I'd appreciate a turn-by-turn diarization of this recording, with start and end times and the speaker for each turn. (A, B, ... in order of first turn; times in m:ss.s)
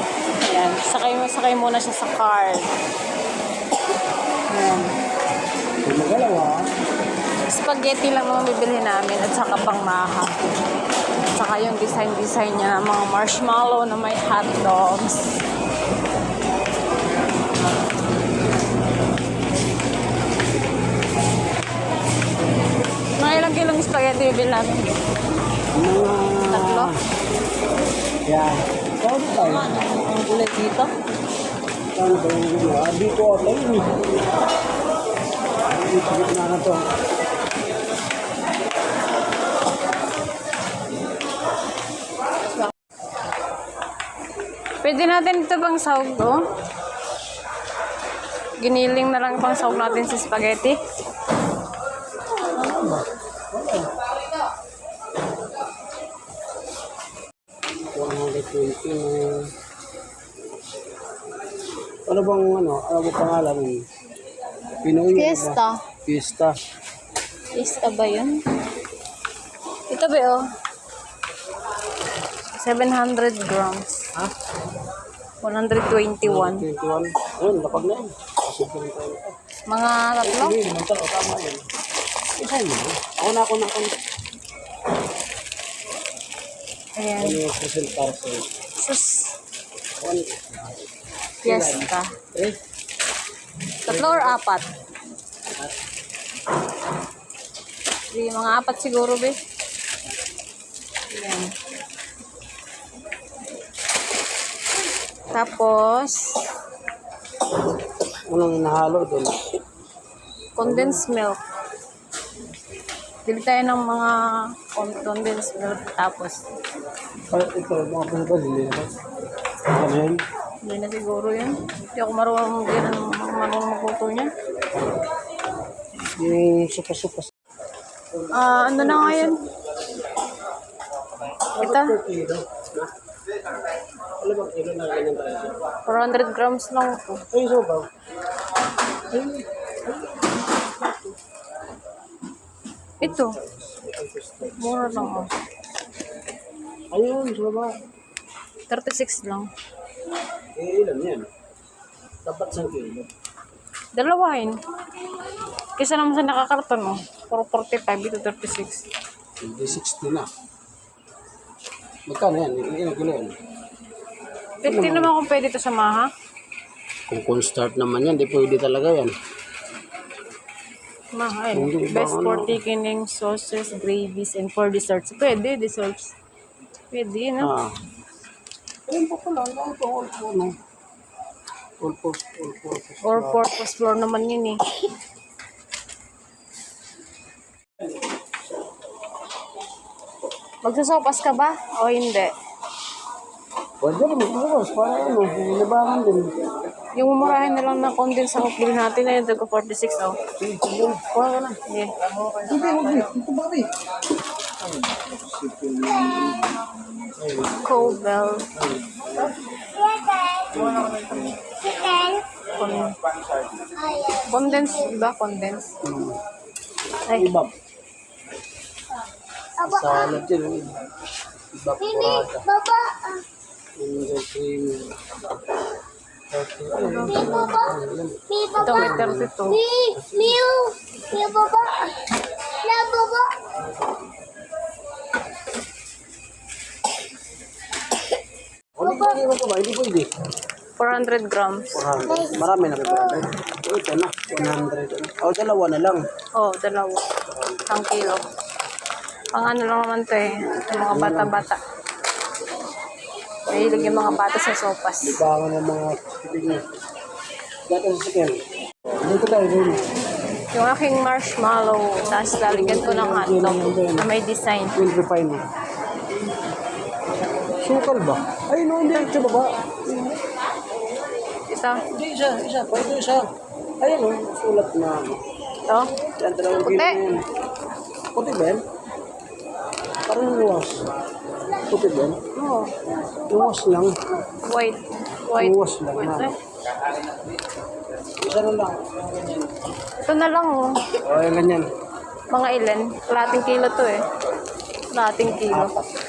0:00.4-0:02.7 A
0:04.5-0:04.9 A
0:05.8-0:06.6 B
0:07.5-0:10.4 A
0:11.4-0:15.4 A
0:23.2-0:25.0 A
0:25.7-0:27.0 B
0:26.5-0:26.9 A
0:28.3-0:29.8 B
0:30.0-0:30.9 A
0:31.9-0:34.0 B
0:35.7-0:36.8 B
0:44.8-0:46.4 A
0:48.6-0:50.8 A
0:52.4-0:53.9 B
0:57.9-0:59.5 B
1:02.1-1:03.8 B
1:04.8-1:06.6 B
1:05.1-1:05.8 A
1:07.5-1:08.4 A
1:09.9-1:10.4 A
1:12.5-1:14.1 A
1:15.4-1:16.7 A
1:16.2-1:19.4 B
1:19.7-1:20.6 A
1:20.2-1:21.7 B
1:22.4-1:24.0 B
1:27.0-1:27.4 A
1:27.2-1:28.5 B
1:28.8-1:29.3 A
1:30.0-1:30.8 B
1:31.4-1:32.6 B
1:31.4-1:32.1 A
1:33.9-1:34.7 A
1:33.9-1:34.4 B
1:38.1-1:39.4 A
1:41.1-1:41.5 A
1:45.3-1:46.4 A
1:48.3-1:49.5 B
1:50.6-1:51.4 A
1:50.6-1:51.0 B
1:53.2-1:56.4 A
1:57.3-1:58.9 B
1:59.7-2:00.2 B
2:00.6-2:04.3 A
2:06.0-2:07.3 B
2:08.1-2:09.5 B
2:08.3-2:09.4 A
2:11.6-2:12.0 A
2:11.6-2:12.9 B
2:14.2-2:15.6 B
2:15.9-2:17.2 A
2:17.3-2:17.9 B
2:19.1-2:21.1 B
2:23.0-2:23.4 A
2:23.0-2:25.3 B
2:24.6-2:25.3 A
2:26.9-2:27.7 B
2:28.7-2:29.5 A
2:30.6-2:31.3 B
2:32.2-2:33.1 B
2:34.0-2:34.6 A
2:35.8-2:38.8 A
2:39.4-2:40.3 B
2:42.1-2:43.4 B
2:44.6-2:46.1 A
2:44.6-2:45.1 B
2:47.1-2:49.2 B
2:51.1-2:56.1 A
2:51.5-2:52.6 B
2:56.9-2:57.5 A
2:57.4-2:57.8 B
2:58.9-3:00.6 B
3:01.8-3:03.5 B
3:03.0-3:04.6 A
3:10.6-3:12.3 A
3:13.8-3:16.5 B
3:17.0-3:20.2 A
3:20.4-3:21.6 B
3:21.7-3:21.9 A
3:22.3-3:23.7 B
3:24.6-3:26.6 B
3:27.2-3:28.0 B
3:27.6-3:28.5 A
3:28.5-3:29.7 B
3:29.9-3:30.5 C
3:30.6-3:31.4 B
3:31.7-3:32.2 C
3:32.6-3:33.0 A
3:33.8-3:34.1 C
3:34.1-3:35.8 A
3:35.8-3:36.2 B
3:37.1-3:37.5 B
3:39.6-3:40.8 B
3:41.5-3:42.5 B
3:42.5-3:43.2 C
3:43.8-3:45.3 B
3:46.3-3:49.4 B
3:46.8-3:47.5 A
3:48.6-3:49.6 A
3:49.7-3:52.0 C
3:49.9-3:50.5 B
3:52.6-3:53.4 C
3:58.8-4:00.1 B
4:00.8-4:01.9 A
4:01.7-4:06.0 B
4:06.4-4:07.1 A
4:07.3-4:07.7 B
4:07.7-4:08.2 A
4:09.3-4:11.6 A
4:10.8-4:11.5 B
4:13.5-4:15.2 A
4:13.5-4:14.2 B
4:15.0-4:16.6 B
4:17.7-4:19.9 B
4:20.5-4:24.8 A
4:22.4-4:24.1 B
4:24.8-4:25.4 B
4:27.6-4:30.2 B
4:31.5-4:31.8 A
4:31.9-4:33.3 B
4:33.8-4:35.2 B
4:35.7-4:35.9 A
4:36.2-4:37.3 B
4:36.6-4:37.0 A
4:38.1-4:38.6 B
4:40.1-4:40.8 B
4:41.5-4:42.2 B
4:42.4-4:42.8 A
4:43.3-4:44.0 B
4:44.4-4:46.4 A
4:45.4-4:46.3 B
4:48.2-4:49.5 B
4:50.0-4:50.9 A
4:51.0-4:51.7 B
4:52.3-4:54.0 A
4:54.9-4:55.7 A
4:55.5-4:55.9 B